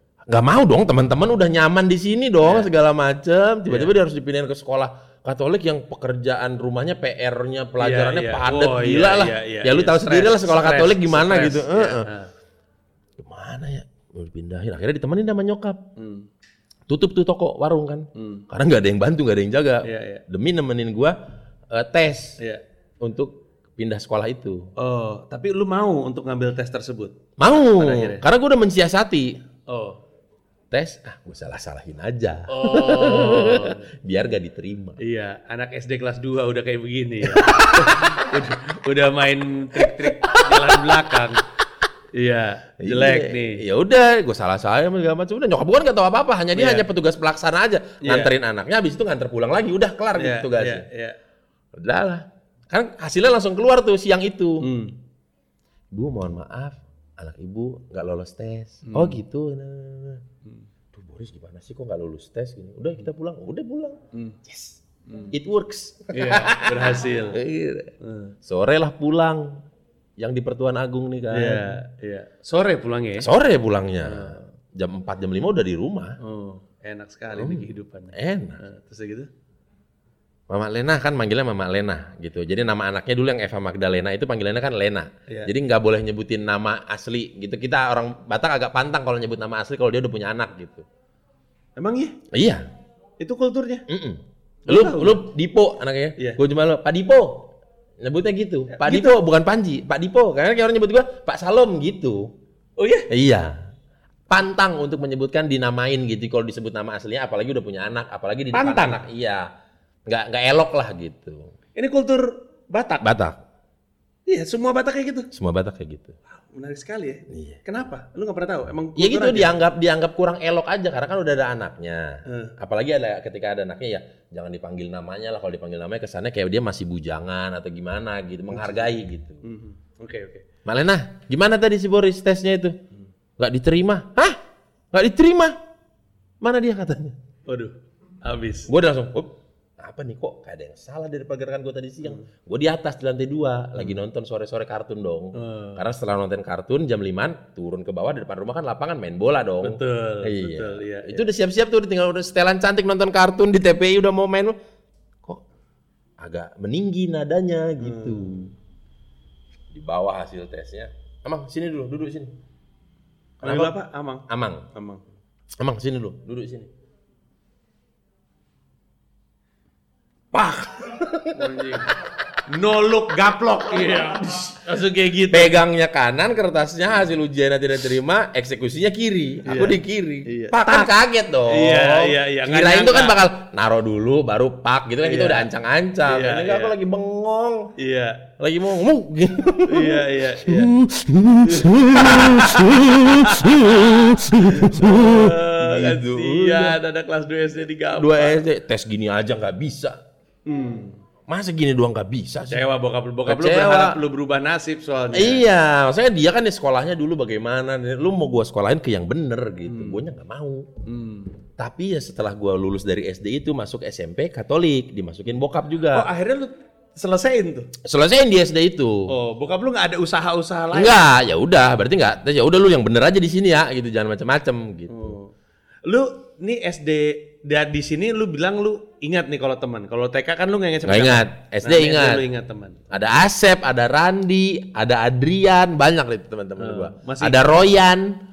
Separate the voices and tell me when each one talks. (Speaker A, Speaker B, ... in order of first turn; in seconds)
Speaker A: 0.3-12.1, 13.2-15.8, 16.9-21.2, 21.7-22.4, 23.0-24.7, 27.4-29.4, 30.7-35.0, 37.2-38.4, 39.8-41.2, 42.8-50.9, 51.7-54.7, 55.9-60.2, 60.9-64.8, 65.3-67.9, 68.4-69.6, 70.2-71.8, 73.2-76.2, 77.3-78.6, 80.5-90.9, 92.3-92.7, 93.9-97.5, 98.0-102.3, 103.1-103.6, 104.3-109.5, 110.1-111.5, 113.0-113.4, 115.3-116.2, 117.3-117.6, 119.0-129.4, 130.7-132.8, 133.4-134.4, 134.9-135.6, 136.4-137.2, 138.7-154.6, 156.2-158.5, 159.7-162.3, 163.4-163.8, 164.3-164.7, 165.6-166.7, 170.3-171.8, 175.3-187.7, 188.4-196.8, 198.0-200.0, 201.3-202.6, 203.3-204.0, 205.1-210.7, 211.6-216.1, 217.8-219.1, 220.7-225.2, 230.8-232.2, 232.9-238.2
Speaker B: 2.4-2.7, 3.7-3.9, 7.8-12.3, 16.0-16.3, 18.1-18.5, 19.8-20.2, 24.8-27.2, 27.8-28.2, 29.7-30.0, 32.5-33.9, 35.0-41.5, 42.1-43.6, 46.5-46.9, 48.0-48.3, 50.1-51.2, 54.6-55.0, 58.9-59.2, 64.1-64.4, 66.1-67.4, 68.0-68.3, 71.3-73.3, 74.0-74.4, 76.2-79.3, 91.8-92.2, 93.2-93.8, 94.7-95.2, 98.7-99.1, 102.8-103.1, 108.5-109.0, 111.8-113.1, 114.3-115.3, 116.3-119.5, 122.3-122.5, 129.4-130.5, 137.5-138.7, 145.3-145.8, 149.6-151.3, 157.8-158.3, 163.4-165.1, 171.3-175.6, 179.5-180.9, 181.5-183.2, 185.0-185.5, 186.1-186.8, 187.8-188.3, 189.7-190.7, 191.4-193.9, 194.4-198.4, 200.5-201.0, 202.5-205.4, 209.7-210.0, 210.9-211.4, 215.9-217.7, 219.1-221.1, 224.9-225.3, 225.8-232.9, 236.6-237.6